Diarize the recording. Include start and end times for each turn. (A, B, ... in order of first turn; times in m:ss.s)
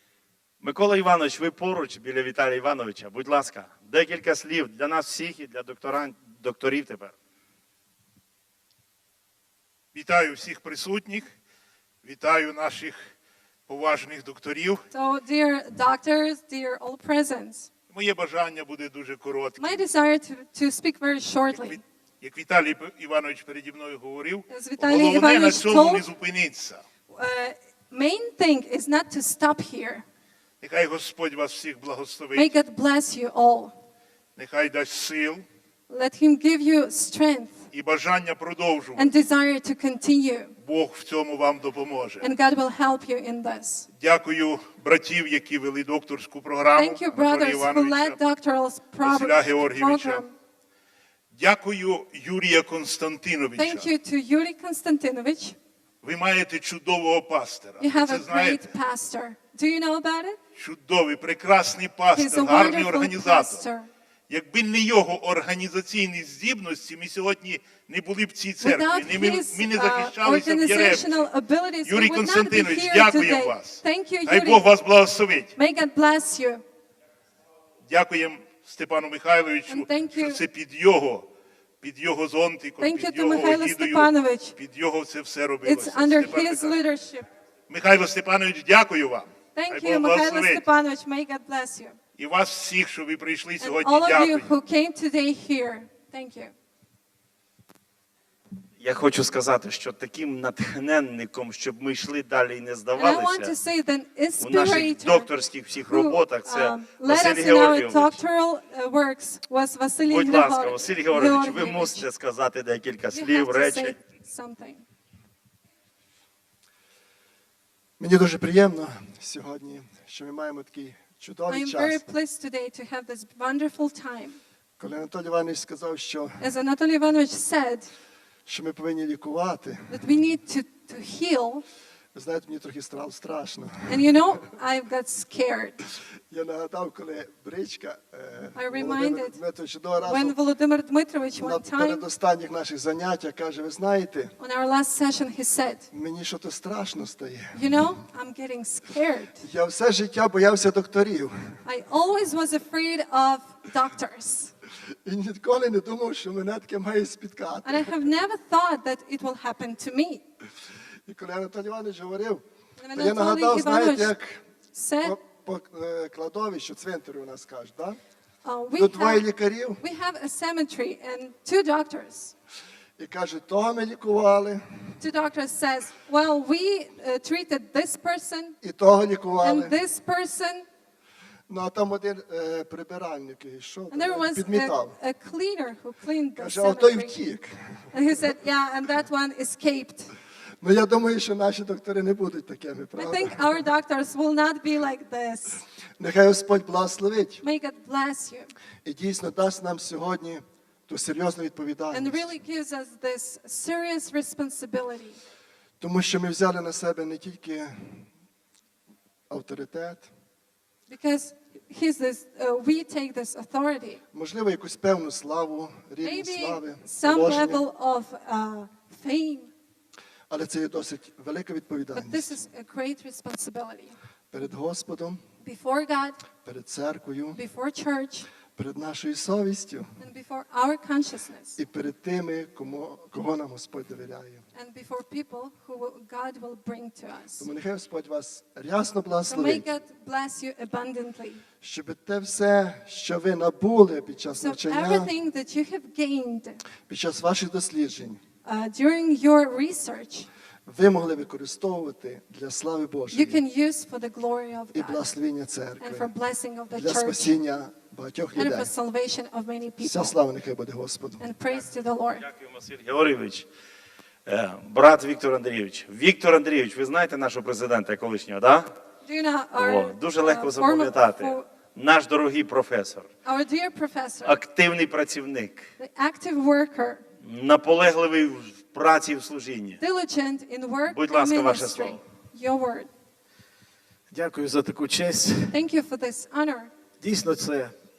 0:00.6-0:07.1 A
0:09.9-0:11.4 B
0:12.0-0:13.1 B
0:13.7-0:14.8 B
0:14.9-0:17.7 C
0:17.9-0:19.8 B
0:19.6-0:21.8 C
0:21.5-0:26.8 B
0:24.5-0:26.1 C
0:27.1-0:30.0 C
0:30.6-0:32.5 B
0:32.4-0:33.7 C
0:34.4-0:35.4 B
0:35.9-0:37.7 C
0:37.7-0:39.1 B
0:39.0-0:40.5 C
0:40.6-0:42.3 B
0:42.2-0:43.9 C
0:44.0-0:48.2 B
0:46.8-0:50.3 C
0:49.0-0:50.3 B
0:51.3-0:53.9 B
0:53.6-0:55.6 C
0:56.0-0:58.7 B
0:57.8-1:00.4 C
1:00.6-1:03.6 B
1:02.1-1:03.9 C
1:04.3-1:11.3 B
1:08.6-1:14.7 C
1:11.8-1:15.5 B
1:15.6-1:16.6 C
1:17.9-1:21.3 B
1:19.7-1:20.4 C
1:21.8-1:26.8 B
1:22.8-1:24.6 C
1:25.6-1:27.3 C
1:27.7-1:30.6 B
1:29.6-1:32.0 C
1:32.2-1:34.5 B
1:33.6-1:36.5 C
1:38.8-1:43.6 A
1:43.0-1:45.3 C
1:44.4-1:48.2 A
1:45.9-1:52.0 C
1:50.1-1:54.0 A
1:53.1-1:54.8 C
1:58.0-2:02.0 D
2:01.5-2:04.4 C
2:04.8-2:06.4 D
2:06.4-2:07.9 C
2:08.5-2:09.9 D
2:09.9-2:11.6 C
2:12.1-2:14.0 D
2:13.9-2:15.8 C
2:16.3-2:20.4 D
2:18.6-2:19.4 C
2:20.0-2:22.0 C
2:21.4-2:24.3 D
2:24.4-2:25.9 C
2:25.9-2:27.6 D
2:27.5-2:29.4 C
2:29.4-2:31.6 D
2:31.6-2:34.5 C
2:35.0-2:37.9 D
2:37.6-2:40.2 C
2:41.1-2:44.4 D
2:42.8-2:44.1 C
2:44.7-2:45.2 C
2:45.0-2:48.0 D
2:48.4-2:49.3 C
2:48.8-2:49.8 D
2:49.8-2:52.3 C
2:53.0-2:54.6 D
2:55.0-2:58.6 C
2:58.6-2:59.8 D
2:59.4-3:00.7 C
3:01.5-3:05.0 D
3:03.9-3:07.2 C
3:06.4-3:07.9 D
3:07.9-3:10.1 C
3:10.6-3:13.6 D
3:13.0-3:15.6 C
3:16.0-3:17.4 D
3:17.4-3:18.5 C
3:18.8-3:22.3 D
3:21.9-3:25.2 C
3:25.8-3:28.0 D
3:29.3-3:30.1 D
3:30.9-3:34.0 C
3:34.1-3:37.6 D
3:36.0-3:39.5 C
3:40.3-3:42.4 D
3:41.9-3:44.0 C
3:44.3-3:45.2 D
3:45.4-3:46.2 C
3:46.4-3:47.4 D
3:47.4-3:48.3 C
3:48.6-3:50.0 D
3:50.0-3:51.6 C
3:51.6-3:54.4 D
3:54.6-3:57.5 C
3:57.4-3:59.6 D
3:59.3-4:01.4 C
4:01.6-4:05.1 D
4:04.4-4:06.6 C
4:06.9-4:08.2 D
4:08.4-4:10.3 C
4:10.7-4:13.4 D
4:13.1-4:15.0 C
4:14.7-4:16.1 D
4:15.8-4:17.4 C
4:16.7-4:18.7 D
4:18.4-4:20.2 C
4:19.8-4:21.2 D
4:21.2-4:22.3 C
4:22.3-4:23.5 A
4:24.3-4:28.8 A
4:29.0-4:31.5 C
4:29.6-4:33.1 A
4:33.2-4:34.4 C
4:34.2-4:35.7 A
4:35.8-4:37.0 C
4:37.2-4:39.8 A
4:39.8-4:42.9 C
4:40.9-4:42.0 A
4:44.1-4:45.6 E
4:45.5-4:46.7 C
4:47.0-4:47.8 E